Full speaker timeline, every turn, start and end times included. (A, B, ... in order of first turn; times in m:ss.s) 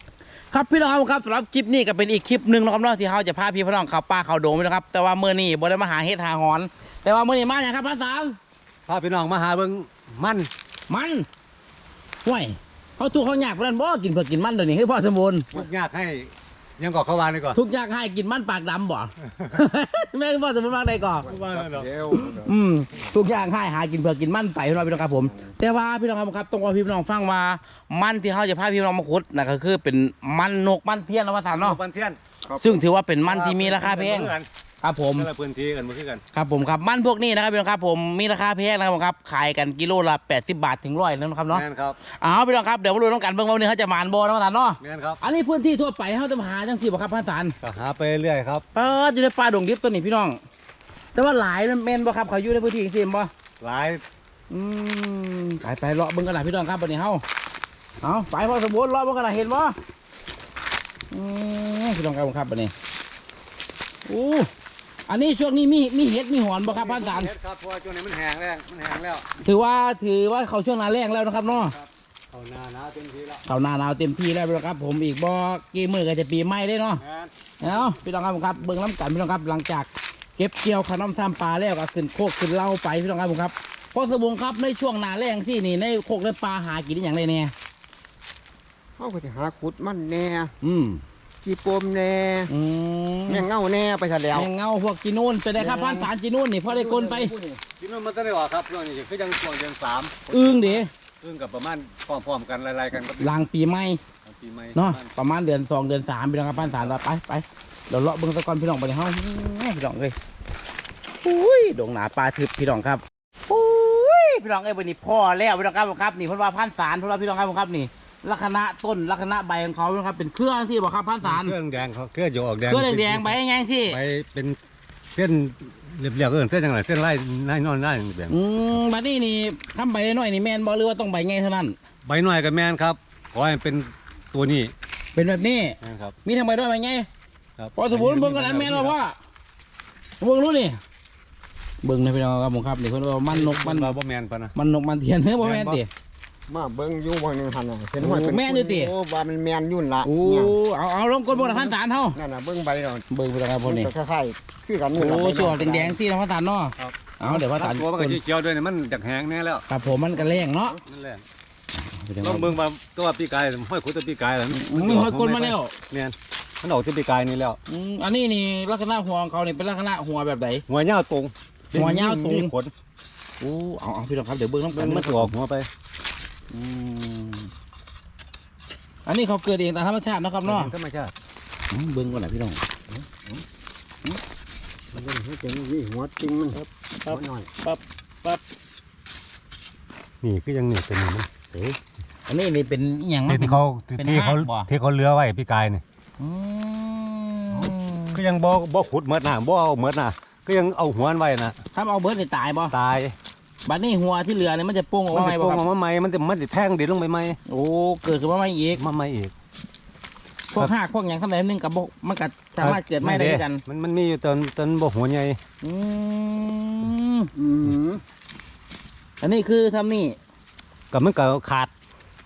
0:00.5-0:08.4 A
0:08.9-0:10.5 B
0:10.9-0:11.3 A
0:12.2-0:15.5 A
0:15.5-0:17.6 B
0:17.5-0:21.3 A
0:21.2-0:22.6 C
0:21.3-0:21.9 B
0:22.1-0:31.8 A
0:25.2-0:25.5 C
0:31.6-0:32.2 B
0:32.4-0:32.8 C
0:32.6-0:35.3 A
0:33.2-0:34.5 B
0:35.1-0:36.2 B
0:36.3-0:47.5 A
0:41.5-0:42.0 B
0:44.8-0:45.2 B
0:47.6-0:48.6 B
0:48.7-0:50.4 A
0:51.1-0:53.3 A
0:53.6-0:54.0 B
0:54.5-0:57.2 A
0:58.0-0:59.8 A
1:01.1-1:02.7 A
1:04.0-1:04.5 A
1:05.1-1:07.3 A
1:06.6-1:09.2 B
1:09.4-1:11.7 A
1:11.4-1:13.4 B
1:13.4-1:17.0 A
1:17.0-1:18.0 B
1:17.6-1:27.5 A
1:29.0-1:30.5 C
1:30.6-1:31.0 A
1:31.4-1:32.5 C
1:32.5-1:33.5 A
1:33.3-1:34.5 C
1:34.3-1:37.3 A
1:35.6-1:36.1 C
1:36.6-1:37.6 C
1:37.8-1:43.3 B
1:40.3-1:40.9 A
1:43.2-1:44.0 A
1:44.2-1:45.1 B
1:44.7-1:50.2 A
1:46.6-1:47.0 B
1:51.2-2:01.6 A
2:01.2-2:04.6 B
2:02.7-2:04.0 A
2:05.1-2:08.8 B
2:08.3-2:11.8 A
2:12.0-2:14.7 B
2:15.1-2:17.1 A
2:15.8-2:16.2 B
2:17.6-2:19.0 B
2:17.7-2:19.1 A
2:20.2-2:20.8 A
2:21.8-2:23.9 A
2:23.3-2:24.5 B
2:24.5-2:25.9 A
2:25.4-2:25.8 B
2:26.5-2:30.6 C
2:28.0-2:28.9 A
2:30.0-2:32.2 A
2:31.4-2:33.0 C
2:33.1-2:33.9 A
2:33.7-2:35.9 C
2:34.9-2:38.2 A
2:36.8-2:39.6 B
2:39.7-2:40.8 A
2:40.8-2:41.2 B
2:41.8-2:42.5 A
2:42.2-2:47.6 B
2:44.5-2:45.7 A
2:47.7-2:50.6 A
2:50.7-2:52.7 B
2:51.7-2:52.5 A
2:53.4-2:55.3 A
2:54.7-2:55.7 B
2:56.5-2:57.5 A
2:59.0-3:00.7 A
3:00.4-3:01.1 B
3:01.7-3:02.6 A
3:04.9-3:07.5 C
3:06.5-3:08.4 A
3:10.2-3:11.3 B
3:11.5-3:14.7 A
3:13.3-3:15.8 B
3:16.2-3:18.2 A
3:18.1-3:21.5 B
3:21.7-3:22.7 A
3:22.7-3:23.1 B
3:23.6-3:25.6 A
3:25.1-3:27.4 B
3:27.4-3:28.8 A
3:28.8-3:29.3 B
3:30.5-3:33.6 A
3:32.6-3:35.4 B
3:35.6-3:37.3 A
3:37.3-3:38.0 C
3:39.2-3:40.2 A
3:40.9-3:41.7 B